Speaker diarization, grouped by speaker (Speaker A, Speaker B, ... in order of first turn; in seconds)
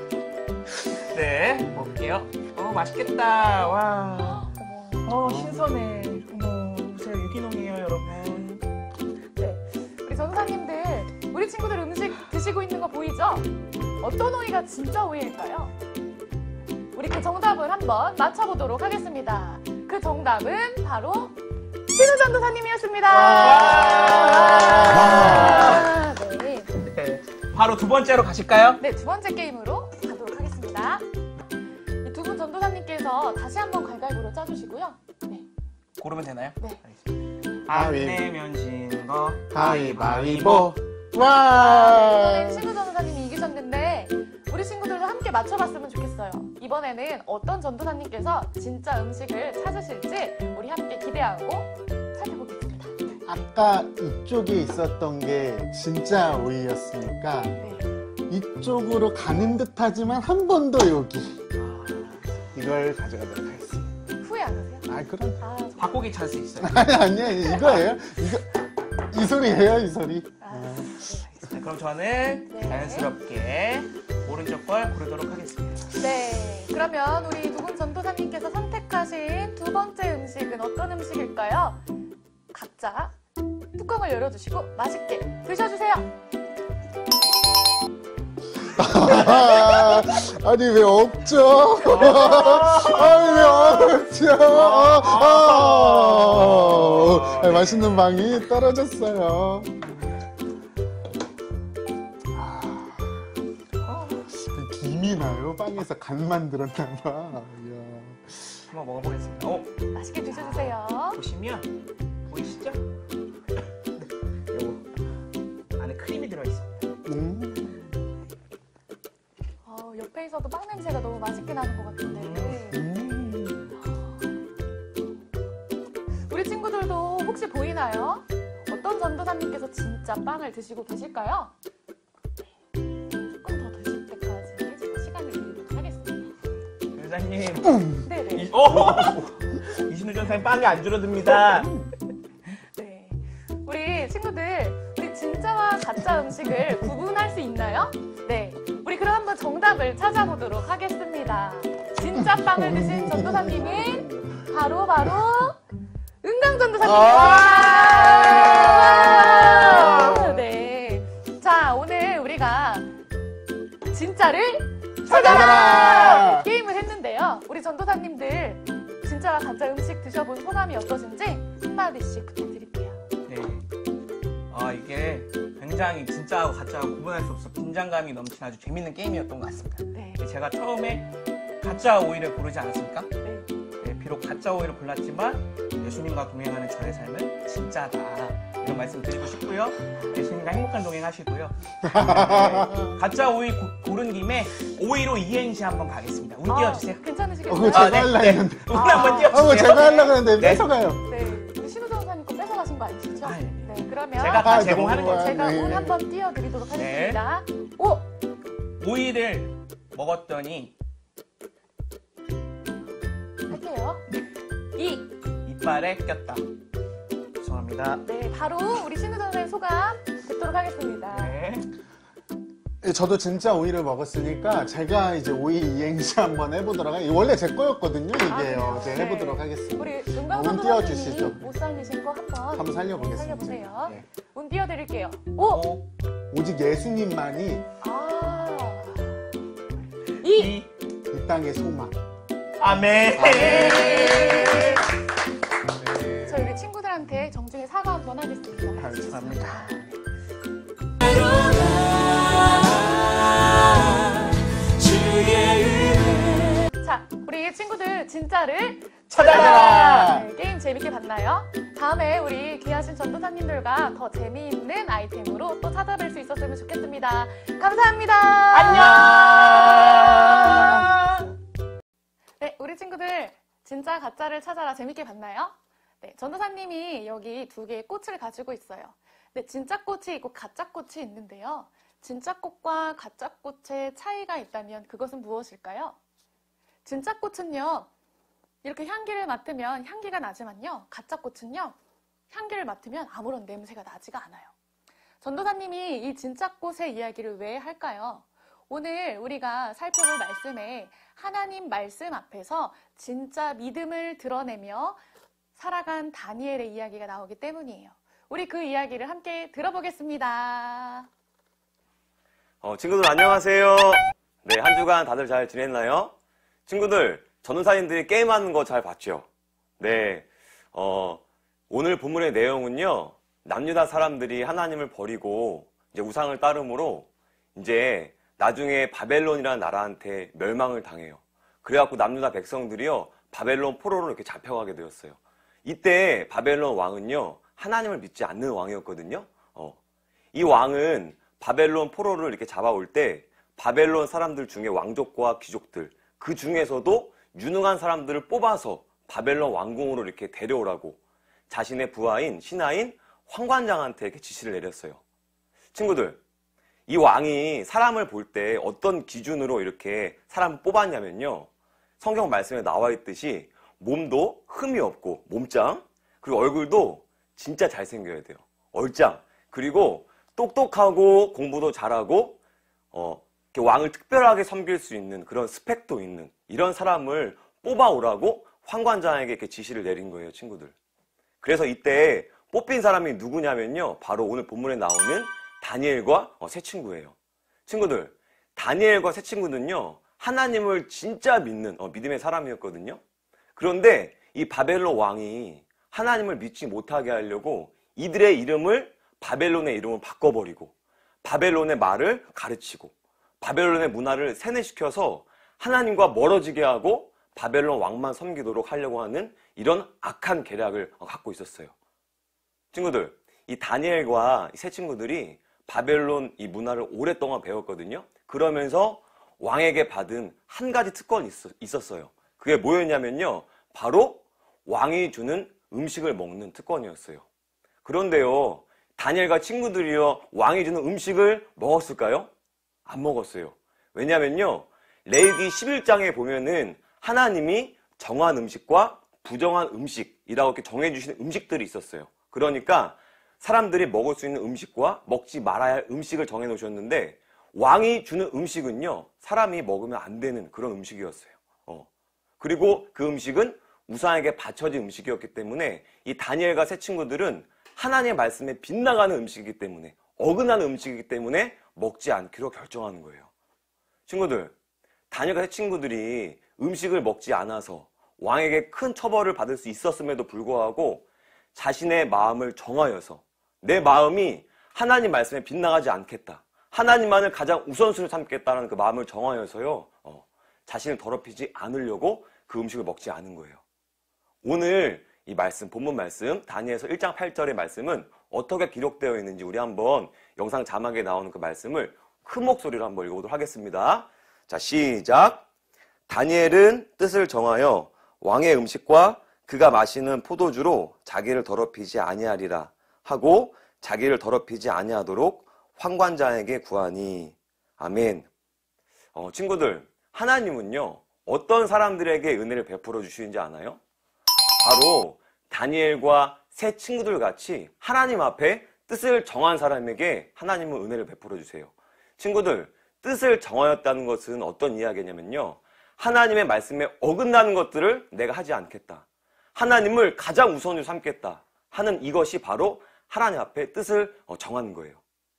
Speaker A: 1.1-4.5, 5.0-8.7, 23.4-25.9, 26.8-28.8, 36.0-37.1, 37.6-40.8, 61.6-62.2, 65.8-66.9, 71.5-75.8, 89.1-89.8, 91.8-98.0, 103.8-104.2, 108.7-111.7, 112.3-112.8, 114.5-114.9, 115.8-116.7, 122.0-122.7, 136.9-141.8, 165.1-166.2, 173.3-173.6, 174.5-183.1, 183.8-197.0, 197.7-200.7, 203.2-205.6, 206.7-207.2, 208.8-210.7, 215.4-216.4, 217.4-218.0, 221.1-221.7, 235.4-235.9, 240.2-240.7, 242.6-244.8, 248.8-249.7, 251.0-256.5, 259.1-260.1, 268.5-271.3
Speaker B: 4.2-5.1, 9.4-15.7, 16.9-21.4, 21.9-26.7, 28.8-31.0, 32.0-35.5, 41.5-53.0, 57.6-57.9, 64.2-66.0, 70.4-71.5, 72.5-73.1, 76.0-81.8, 82.5-83.1, 83.7-86.1, 109.9-111.2, 119.6-122.8, 126.3-131.5, 133.3-136.3, 138.0-138.5, 142.7-155.6, 156.2-162.9, 163.9-173.0, 179.9-180.2, 183.2-183.5, 196.5-200.1, 201.0-208.1, 213.5-214.0, 214.7-215.1, 218.0-221.3, 228.3-235.7, 237.8-239.2, 240.2-240.6, 243.5-244.8, 246.2-250.0, 256.7-270.9, 272.4-286.0, 286.8-287.9, 288.6-291.8, 292.3-294.5, 295.2-305.0, 305.5-311.1
Speaker C: 5.3-5.6, 23.1-25.8, 37.7-38.2, 39.5-42.6, 53.2-57.6, 58.3-61.4, 62.5-63.9, 64.8-65.4, 66.6-68.5, 69.1-70.9, 88.8-99.9, 102.3-103.1, 104.3-108.3, 117.0-117.8, 122.7-123.6, 152.4-154.4, 156.8-160.3, 165.1-166.5, 191.8-192.9, 197.5-201.0, 204.3-205.9, 222.8-231.4, 232.5-234.0, 236.3-237.6, 241.1-241.9, 243.2-243.9, 259.1-260.2
Speaker D: 312.6-316.1, 316.7-319.3, 319.8-339.8, 340.3-355.0, 355.7-356.2, 356.9-361.5, 362.0-372.4, 372.9-380.7, 381.4-387.1, 387.7-393.0, 393.6-411.7, 412.7-427.2, 427.8-432.3, 432.9-451.9, 452.4-463.3, 464.1-464.5, 465.1-483.6, 484.4-495.4, 496.1-508.3, 509.1-513.8, 514.6-535.0